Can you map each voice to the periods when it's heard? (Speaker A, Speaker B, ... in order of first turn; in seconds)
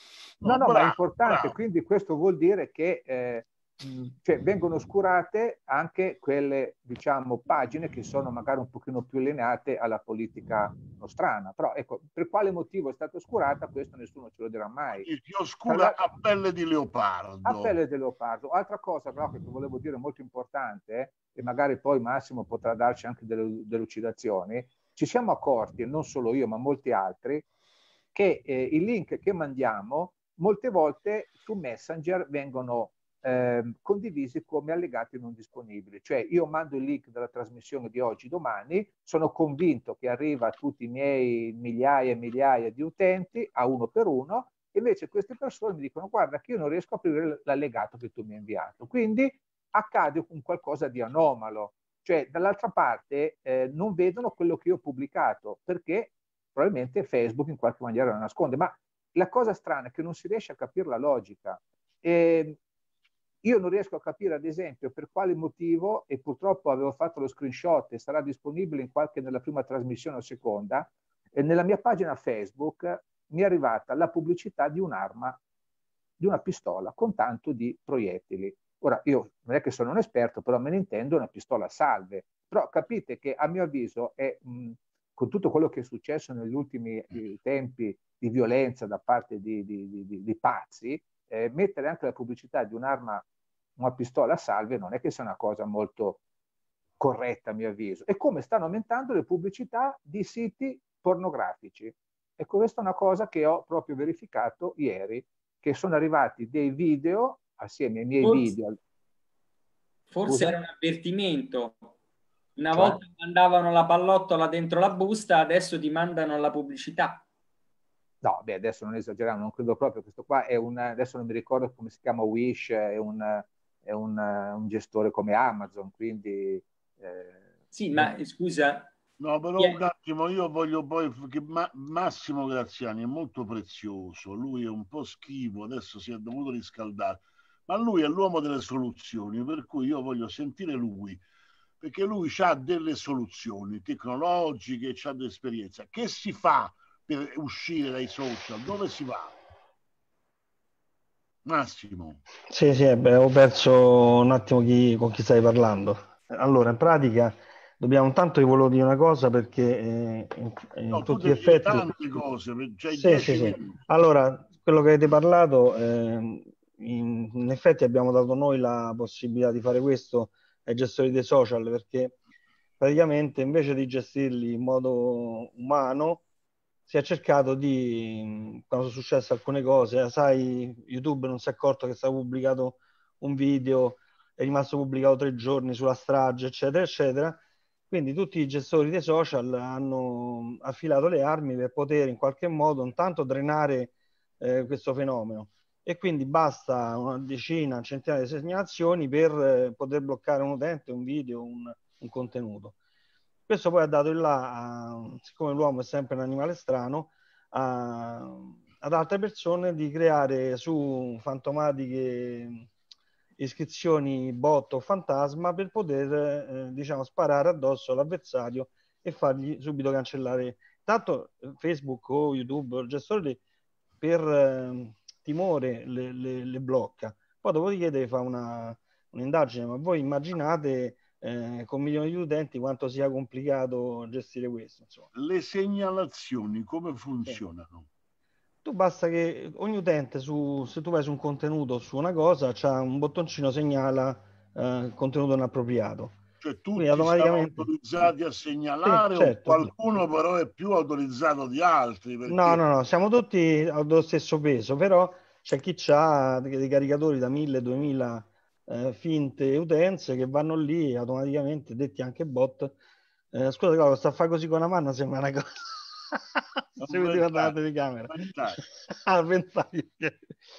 Speaker A: 0.4-1.5, 14.9-17.7, 129.2-141.2, 141.8-149.4, 151.4-152.2, 160.9-163.8, 235.1-237.9, 246.4-252.6, 266.8-268.6
Speaker B: 0.4-15.1, 15.7-16.0, 17.4-27.4, 28.1-62.6, 63.4-75.4, 76.2-93.2, 93.8-96.2, 97.0-108.8, 110.2-110.6, 112.7-113.0, 118.2-127.4
Speaker C: 108.2-108.5, 110.1-111.8, 112.5-117.2, 127.7-128.9
Speaker D: 152.5-161.9, 162.9-172.2, 172.8-176.2, 176.9-202.8, 203.5-212.7, 213.4-223.4, 224.0-235.1, 238.6-246.2, 246.8-247.7, 248.8-249.7, 252.3-262.8, 263.3-270.3